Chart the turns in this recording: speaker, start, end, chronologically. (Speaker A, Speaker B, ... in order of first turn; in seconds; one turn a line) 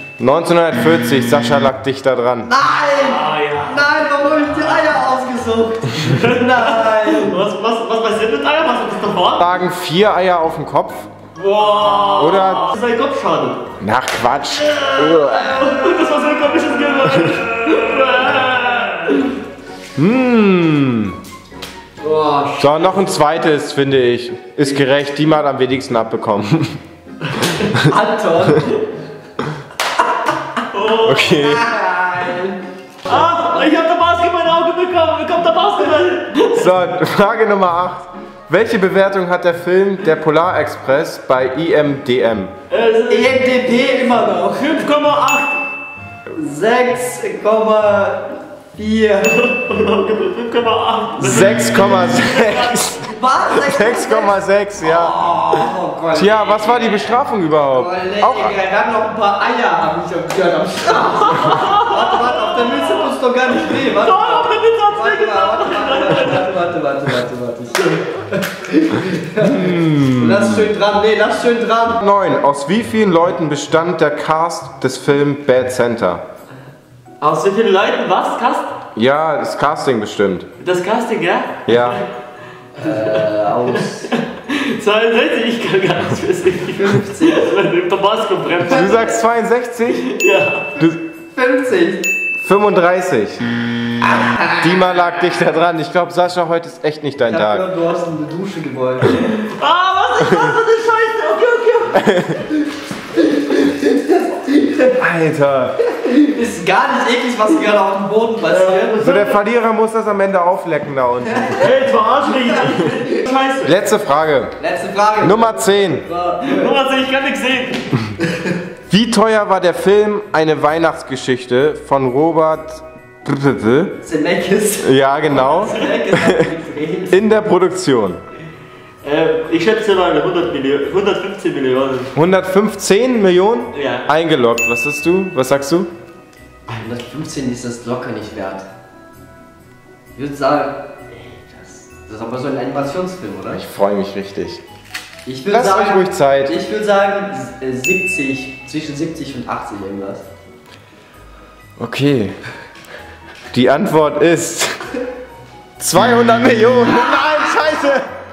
Speaker A: 0.2-2.5
Speaker B: 2.5-7.3
Speaker C: 2.9-4.9
Speaker C: 6.0-9.5
Speaker A: 9.4-11.1
Speaker C: 11.3-13.7
Speaker A: 12.2-12.7
Speaker A: 13.8-15.8
Speaker C: 14.5-19.4
Speaker A: 19.9-21.2
Speaker C: 22.0-23.1
Speaker A: 22.6-26.8
Speaker C: 27.3-27.7
Speaker B: 27.8-28.8
Speaker C: 30.7-31.5
Speaker A: 31.0-31.7
Speaker B: 31.4-33.6
Speaker C: 33.0-36.7
Speaker A: 36.5-42.5
Speaker C: 42.7-43.4
Speaker B: 43.1-44.8
Speaker C: 44.5-45.6
Speaker B: 46.3-49.3
Speaker C: 49.2-52.9
Speaker A: 51.2-55.2
Speaker B: 53.0-57.0
Speaker A: 56.1-58.6
Speaker C: 56.6-57.1
Speaker B: 57.7-72.0
Speaker C: 61.2-66.5
Speaker C: 67.8-68.0
Speaker A: 69.4-70.7
Speaker A: 72.0-76.2
Speaker C: 77.2-78.7
Speaker A: 78.9-80.5
Speaker C: 80.6-82.0
Speaker A: 81.7-82.0
Speaker B: 82.8-84.1
Speaker C: 82.8-89.1
Speaker B: 86.7-87.5
Speaker A: 88.7-90.1
Speaker B: 88.7-89.2
Speaker C: 90.0-90.7
Speaker B: 90.8-92.0
Speaker A: 92.4-93.4
Speaker B: 94.1-94.6
Speaker A: 94.5-97.7
Speaker B: 97.3-99.2
Speaker C: 99.1-102.1
Speaker A: 102.0-102.4
Speaker B: 103.2-104.9
Speaker A: 104.9-105.8
Speaker B: 105.9-109.2
Speaker C: 108.5-109.4
Speaker A: 109.0-111.7
Speaker B: 111.2-111.7
Speaker C: 111.5-113.8
Speaker A: 113.6-114.5
Speaker B: 114.6-116.8
Speaker A: 115.2-116.0
Speaker C: 116.4-117.9
Speaker B: 118.2-118.5
Speaker A: 118.9-124.0
Speaker B: 124.0-127.3
Speaker A: 124.8-126.4
Speaker A: 127.1-128.2
Speaker C: 129.0-132.1
Speaker A: 132.1-135.9
Speaker C: 133.7-134.1
Speaker B: 136.7-138.7
Speaker B: 140.2-140.9
Speaker B: 141.8-143.6
Speaker A: 143.5-144.6
Speaker B: 145.2-150.2
Speaker A: 145.5-146.5
Speaker A: 151.8-152.3
Speaker A: 153.5-154.8
Speaker A: 155.8-158.1